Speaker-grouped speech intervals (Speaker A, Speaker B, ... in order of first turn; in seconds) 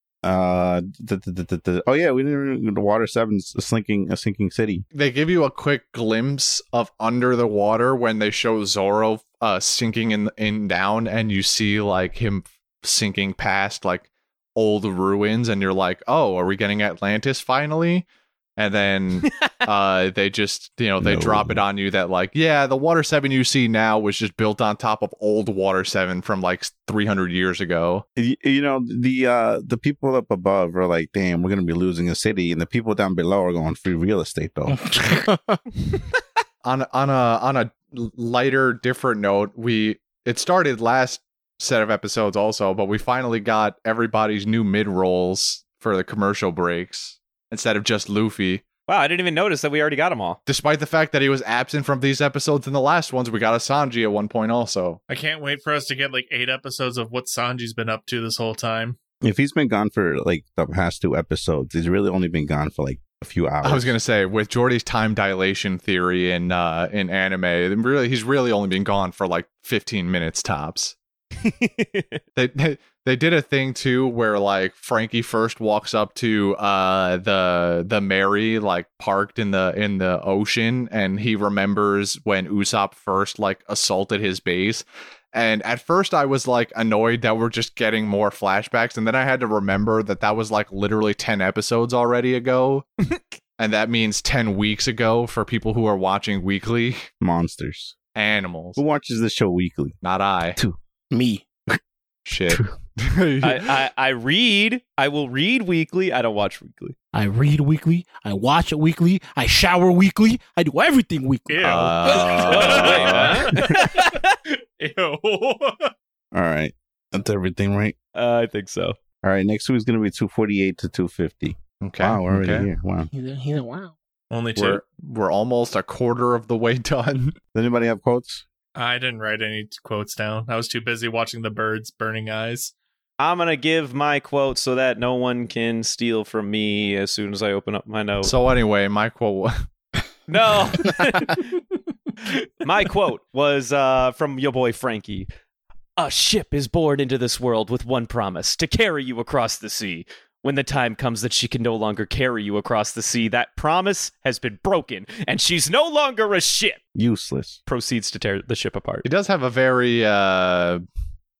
Speaker A: 0.2-4.8, 21.0-21.6, 28.1-34.8, 59.2-63.9, 97.2-97.9, 98.8-100.0, 116.3-117.9, 119.2-123.1, 127.5-128.4, 156.9-157.6
Speaker B: 4.9-28.0, 36.6-48.6, 50.5-55.0, 63.6-70.9, 72.3-92.9, 93.6-97.0, 98.1-98.8, 100.0-100.6, 102.2-103.7, 111.6-113.5, 121.8-122.7, 124.5-127.3, 138.2-139.5, 159.0-160.8
Speaker C: 34.7-35.6, 101.1-101.5, 107.1-112.6, 123.1-124.0
Speaker D: 48.9-50.4, 71.4-72.2, 103.4-106.9, 112.4-114.3, 118.1-119.0, 133.2-138.3, 140.3-141.6, 142.6-145.3, 146.0-156.8, 157.7-159.0
Speaker E: 55.1-59.0, 111.5-115.9, 124.3-124.8, 128.8-132.7